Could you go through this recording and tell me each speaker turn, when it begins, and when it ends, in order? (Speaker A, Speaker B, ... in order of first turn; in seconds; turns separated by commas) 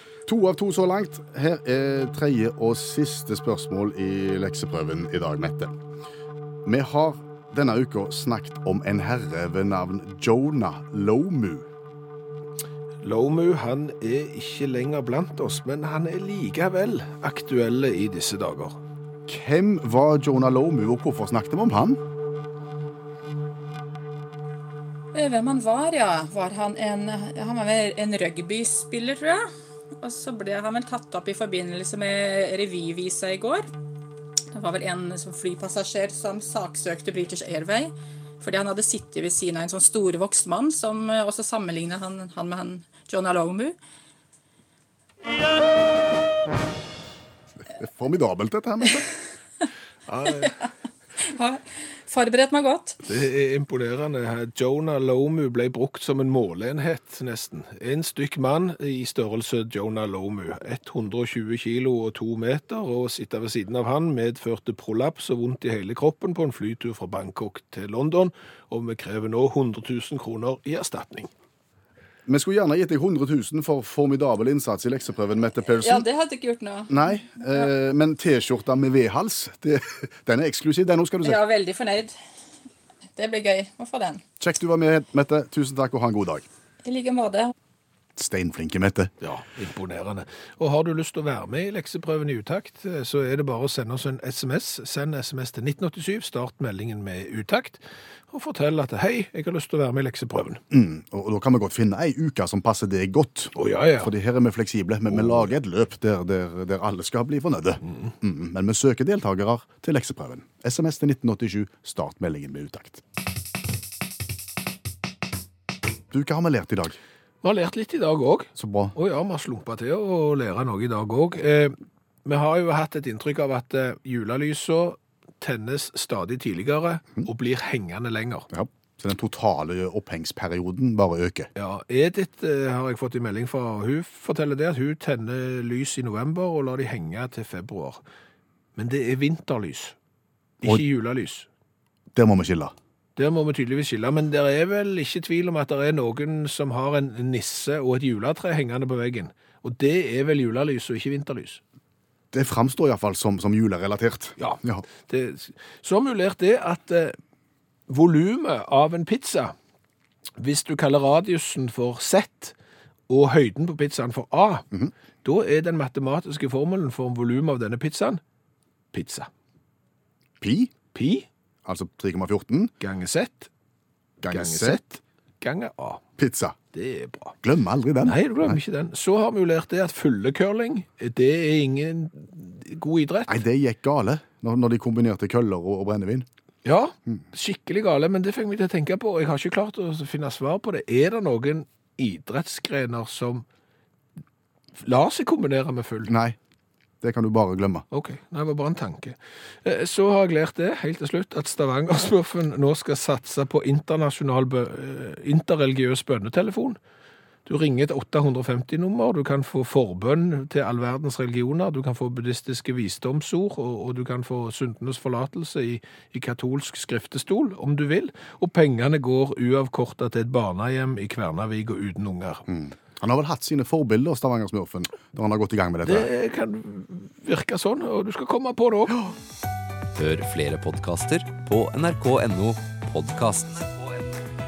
Speaker A: 0.3-5.7, Speaker A: 6.6-11.7, Speaker B: 13.0-18.8, Speaker A: 19.3-22.0, Speaker C: 25.1-29.5, Speaker C: 30.0-33.6, Speaker C: 34.5-43.8, Speaker A: 47.8-49.1, Speaker B: 50.1-50.6, Speaker C: 51.3-53.0, Speaker B: 53.0-71.3, Speaker A: 72.3-76.1, Speaker C: 75.8-77.7, Speaker A: 76.9-81.4, Speaker C: 81.2-82.1, Speaker C: 83.2-84.2, Speaker A: 84.4-86.5, Speaker C: 86.8-87.5, Speaker A: 88.2-89.1, Speaker B: 89.2-100.6, Speaker A: 100.7-113.0, Speaker B: 103.5-104.1, Speaker B: 105.1-105.5, Speaker B: 107.9-108.1, Speaker A: 116.1-117.0, Speaker B: 117.4-128.5, Speaker A: 118.6-119.0, Speaker A: 128.5-131.5, Speaker B: 131.6-138.0, Speaker B: 138.8-140.0, Speaker B: 140.6-141.5, Speaker A: 142.1-142.7, Speaker B: 143.2-151.6, Speaker A: 152.3-154.8, Speaker B: 154.4-157.2, Speaker B: 157.9-159.5, Speaker B: 160.4-162.6, Speaker B: 163.1-164.7, Speaker B: 165.2-168.2, Speaker B: 168.9-169.3, Speaker A: 170.4-170.7, Speaker B: 170.9-171.3, Speaker A: 171.6-172.7, Speaker B: 172.8-173.5, Speaker A: 174.2-174.8, Speaker B: 174.3-176.0, Speaker A: 176.2-176.6, Speaker B: 176.7-177.4, Speaker A: 177.4-178.6, Speaker B: 178.0-183.4, Speaker A: 183.3-186.3, Speaker B: 186.6-193.4, Speaker B: 194.8-196.1, Speaker A: 196.1-196.4, Speaker A: 197.0-197.9, Speaker B: 197.9-206.8, Speaker B: 207.5-222.5, Speaker A: 222.5-226.1, Speaker B: 225.8-229.1, Speaker D: 230.0-233.9